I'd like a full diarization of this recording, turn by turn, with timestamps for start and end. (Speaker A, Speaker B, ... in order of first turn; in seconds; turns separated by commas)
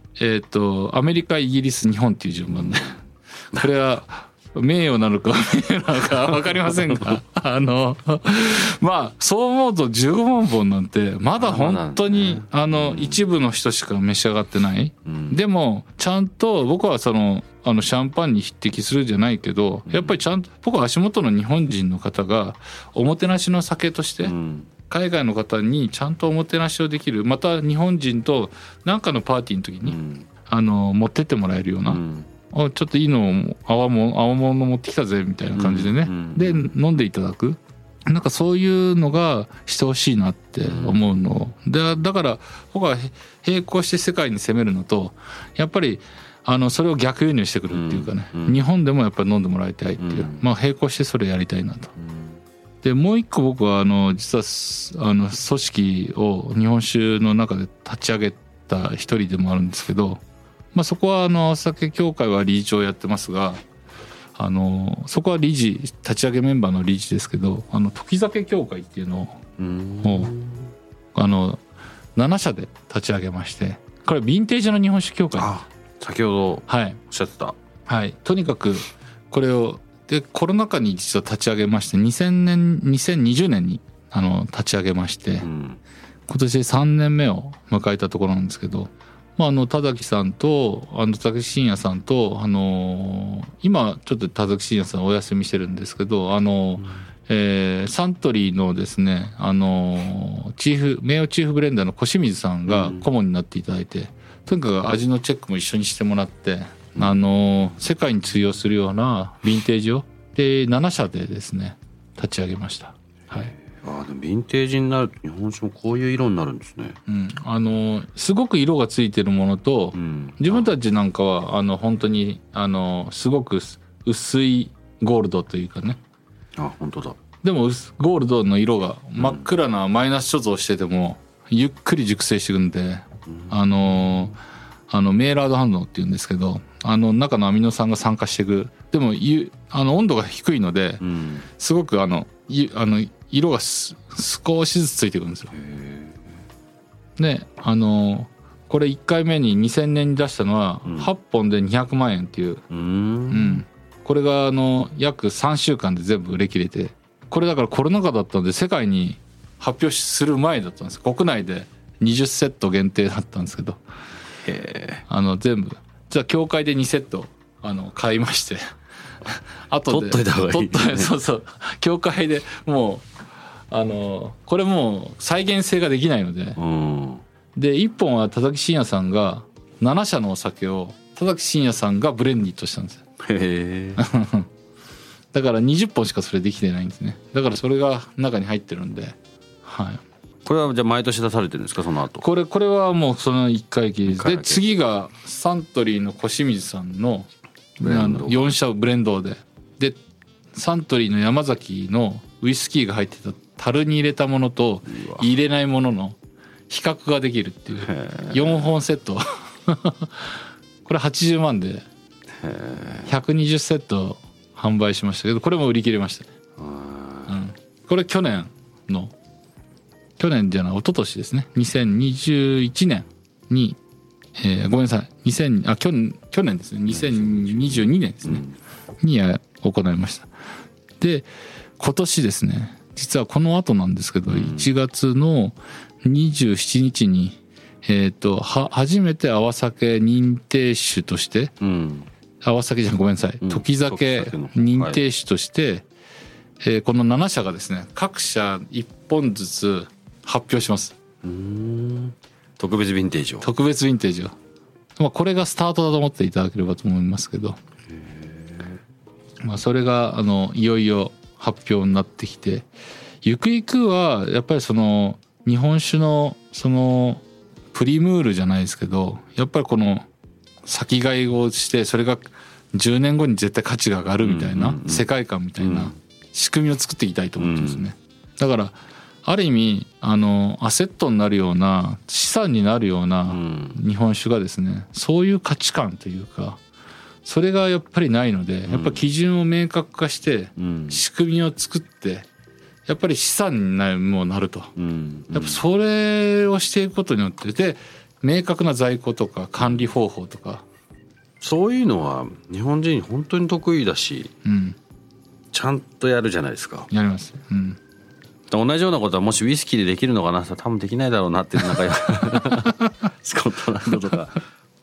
Speaker A: 0.2-3.0, Speaker B: 2.5-3.0, Speaker A: 3.5-24.3, Speaker B: 6.5-7.2, Speaker B: 11.4-13.2, Speaker B: 15.0-15.4, Speaker B: 19.9-20.2, Speaker B: 24.2-24.7, Speaker A: 24.9-51.9, Speaker B: 29.8-30.3, Speaker B: 31.9-32.3, Speaker B: 35.5-36.8, Speaker B: 40.6-41.2, Speaker B: 47.7-48.6, Speaker B: 50.0-50.4, Speaker B: 52.0-52.4, Speaker A: 52.8-60.2, Speaker A: 60.7-63.6, Speaker A: 64.3-69.4, Speaker B: 69.6-70.7, Speaker A: 70.0-70.3, Speaker A: 71.1-71.6, Speaker A: 72.2-75.5, Speaker B: 75.3-77.6, Speaker A: 76.7-77.0, Speaker A: 77.9-85.5, Speaker B: 85.4-85.8, Speaker A: 86.3-113.5, Speaker B: 102.7-103.1, Speaker B: 107.0-107.2, Speaker B: 113.3-117.0, Speaker A: 117.1-126.0, Speaker B: 119.9-120.7, Speaker B: 126.6-127.2, Speaker A: 127.4-134.3, Speaker B: 129.2-129.4, Speaker B: 133.3-134.3, Speaker A: 134.9-145.5, Speaker B: 141.0-141.5, Speaker B: 145.5-146.4, Speaker A: 147.2-152.6, Speaker B: 150.8-151.1, Speaker B: 152.7-153.6, Speaker A: 153.3-163.8, Speaker B: 164.4-165.0, Speaker A: 165.1-168.6, Speaker A: 169.3-173.1, Speaker B: 169.9-171.1, Speaker A: 173.7-176.6, Speaker B: 176.6-177.2, Speaker A: 177.6-183.0, Speaker B: 183.2-184.0, Speaker A: 184.0-184.5, Speaker A: 185.3-190.0, Speaker B: 190.4-192.2, Speaker A: 192.2-200.0, Speaker B: 194.1-194.6, Speaker B: 197.8-198.6, Speaker A: 200.5-206.2, Speaker B: 204.9-205.2, Speaker A: 206.7-211.8, Speaker B: 207.8-208.7, Speaker B: 212.4-213.1, Speaker A: 213.1-216.3, Speaker B: 216.6-217.4, Speaker A: 217.3-219.1, Speaker A: 220.2-223.8, Speaker A: 224.4-228.4, Speaker B: 226.9-228.6, Speaker A: 229.0-230.3, Speaker A: 231.0-231.3, Speaker A: 231.8-241.5, Speaker B: 234.3-234.7, Speaker B: 241.6-242.1, Speaker A: 242.4-245.8, Speaker B: 243.4-245.0, Speaker A: 246.6-250.9, Speaker B: 251.2-253.5, Speaker A: 253.4-254.3, Speaker A: 255.0-257.6, Speaker B: 257.9-258.8, Speaker A: 259.4-262.7, Speaker A: 263.2-270.1, Speaker A: 270.6-286.6, Speaker B: 274.2-275.1, Speaker B: 275.6-276.0, Speaker B: 277.4-277.9, Speaker B: 283.3-283.8, Speaker A: 287.2-292.3, Speaker B: 288.7-289.0, Speaker B: 290.6-291.0, Speaker A: 292.9-294.7, Speaker B: 294.8-295.6, Speaker A: 295.3-300.6, Speaker B: 301.4-304.3, Speaker A: 304.4-304.8, Speaker B: 305.5-306.9, Speaker A: 306.9-307.8, Speaker B: 308.5-314.4, Speaker A: 312.4-312.7